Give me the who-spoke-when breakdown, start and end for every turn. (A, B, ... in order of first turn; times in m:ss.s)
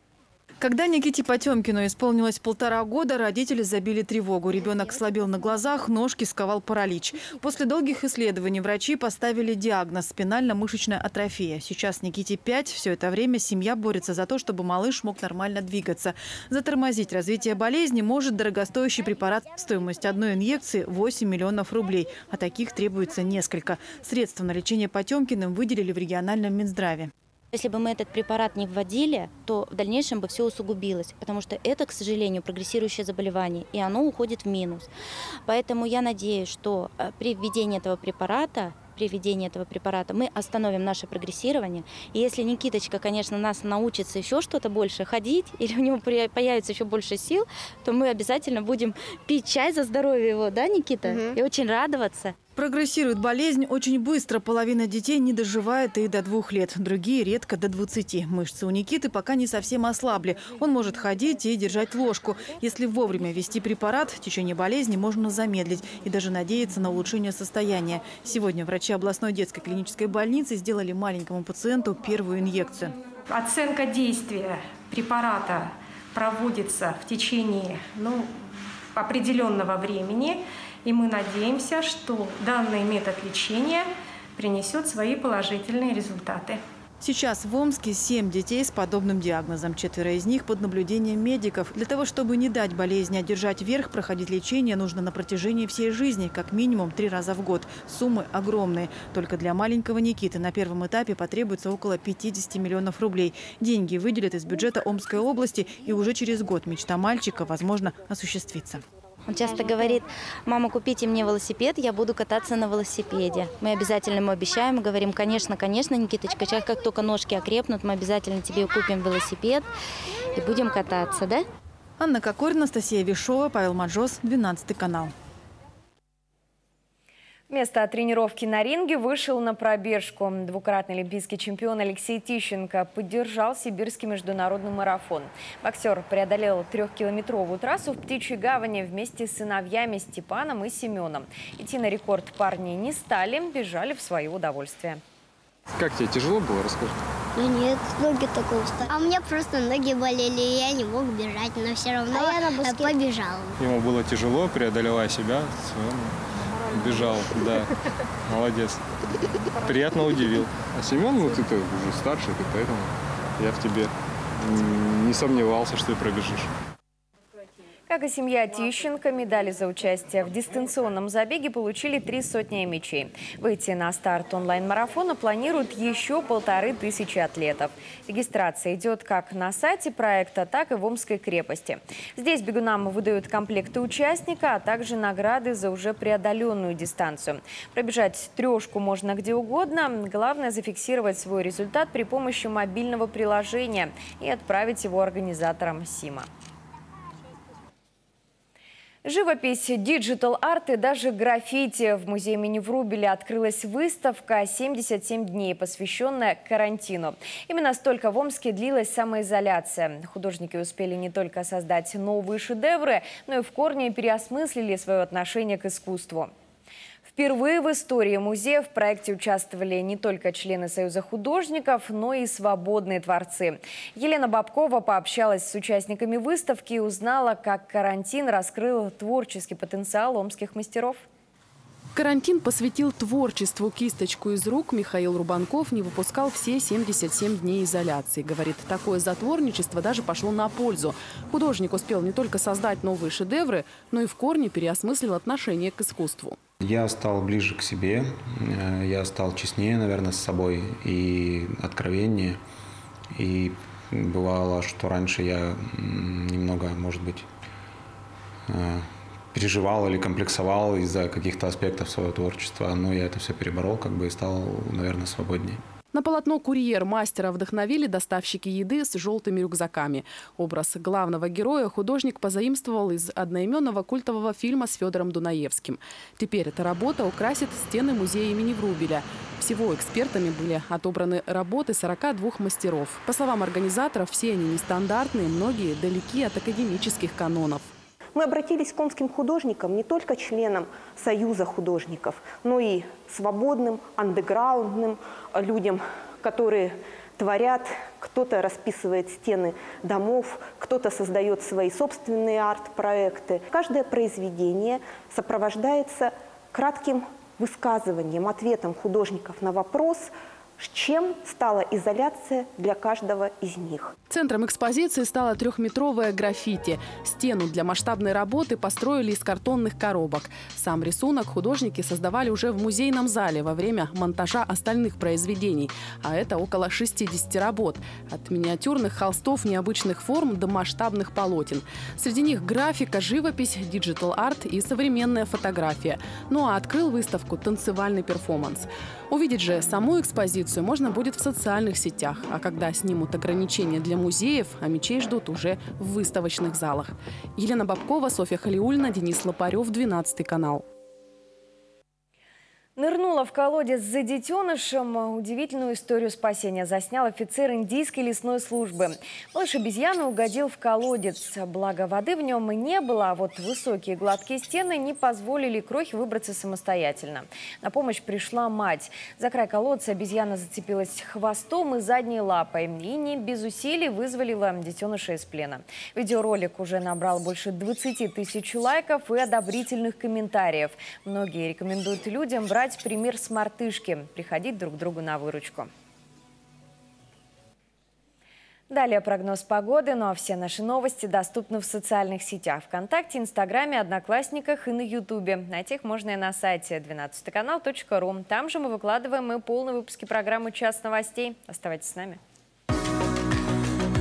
0:00.6-0:27.1 A
0:27.5-0:34.9 B
0:35.4-0:52.3 B
0:52.6-1:12.9 A
1:13.3-1:26.6 C
1:27.0-1:48.8 A
1:49.2-1:59.7 B
2:00.3-2:01.4 B
2:02.0-2:05.1 A
2:07.5-2:25.0 D
2:25.8-2:26.8 E
2:27.4-2:33.6 F
2:33.6-2:36.1 E
2:36.7-2:37.6 E
2:38.3-2:38.8 E
2:39.6-2:43.9 E
2:44.4-2:46.5 E
2:47.9-3:16.3 D
3:19.0-3:36.3 D
3:37.1-3:51.0 D
3:51.9-4:06.4 G
4:06.6-4:12.4 H
4:13.1-4:17.3 H
4:18.5-4:25.6 H
4:25.9-4:47.7 G
4:48.1-5:13.9 I
5:14.1-5:50.6 G
5:52.8-6:25.7 D
6:28.7-6:42.2 D